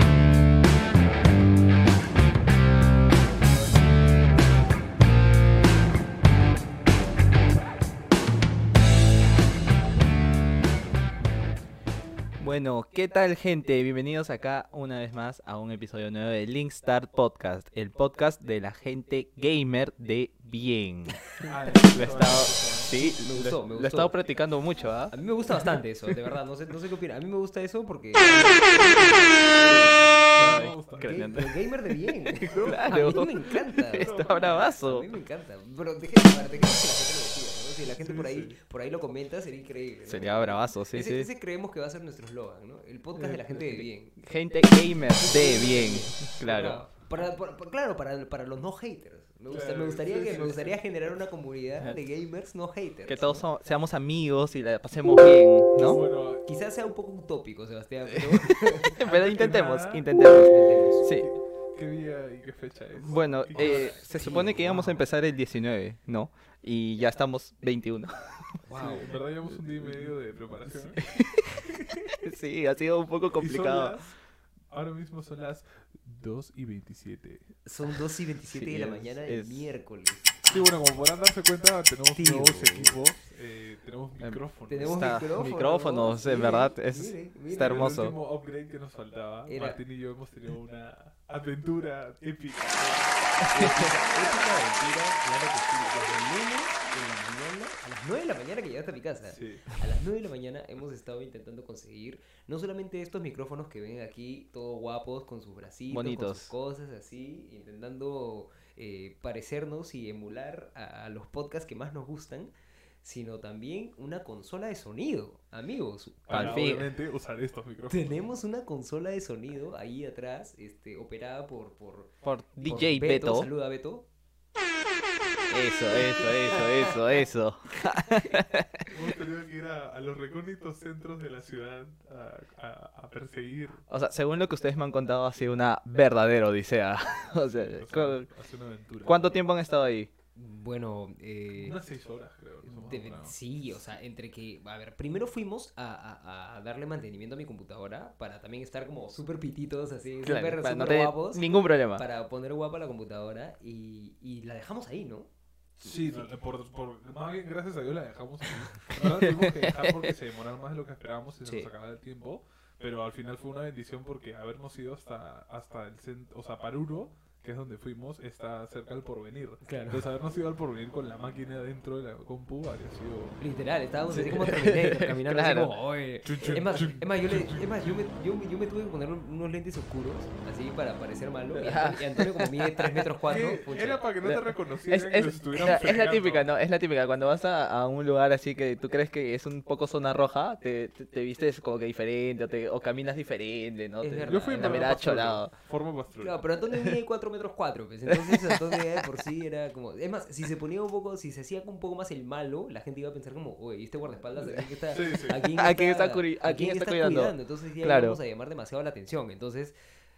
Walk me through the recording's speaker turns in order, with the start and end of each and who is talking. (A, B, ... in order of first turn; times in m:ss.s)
0:12.4-0:25.1 A
0:21.4-0:22.9 B
0:23.0-0:24.1 C
0:25.1-0:44.2 C
0:30.3-0:31.3 B
0:30.4-0:31.5 A
0:32.3-0:35.1 A
0:32.4-0:33.3 B
0:33.9-0:34.7 B
0:37.8-0:38.6 B
0:40.1-0:41.3 A
0:43.2-0:46.8 A
0:45.1-0:53.4 C
0:49.5-0:50.8 B
0:53.1-0:56.0 A
0:55.8-0:56.4 B
0:56.4-0:59.0 C
0:58.3-1:01.3 A
0:59.0-1:00.0 B
1:00.2-1:01.1 C
1:01.0-1:04.4 B
1:03.0-1:08.3 A
1:03.5-1:05.0 C
1:08.6-1:09.1 C
1:08.7-1:12.0 B
1:09.7-1:10.0 A
1:11.0-1:14.0 A
1:13.4-1:14.1 B
1:14.7-1:17.5 B
1:17.6-1:20.5 C
1:18.5-1:19.7 A
1:20.4-1:25.1 B
1:22.1-1:23.0 C
1:24.2-1:28.1 A
1:24.7-1:28.1 C
1:27.5-1:33.2 B
1:29.4-1:29.8 C
1:33.5-1:33.9 A
1:33.5-1:52.5 C
1:39.3-1:39.6 B
1:45.9-1:46.5 A
1:53.0-1:56.8 C
1:56.3-1:58.1 B
1:56.3-1:56.8 A
1:57.9-2:02.1 C
2:02.2-2:03.5 A
2:02.6-2:04.1 C
2:05.5-2:08.9 A
2:05.9-2:06.9 C
2:08.9-2:13.8 B
2:13.9-2:18.3 A
2:17.5-2:19.4 B
2:19.0-2:20.1 A
2:20.3-2:21.8 C
2:21.6-2:23.3 B
2:22.6-2:35.3 C
2:30.2-2:32.0 A
2:35.8-2:53.4 B
2:39.4-2:40.1 A
2:41.4-2:41.7 C
2:49.6-2:50.0 C
2:53.4-3:04.1 C
2:54.1-2:55.8 A
2:56.2-2:58.0 B
3:01.6-3:03.0 A
3:03.2-3:06.4 B
3:04.2-3:15.5 A
3:14.0-3:15.4 C
3:14.2-3:16.4 B
3:16.2-3:29.7 C
3:18.1-3:19.0 A
3:24.9-3:25.5 B
3:25.5-3:28.2 A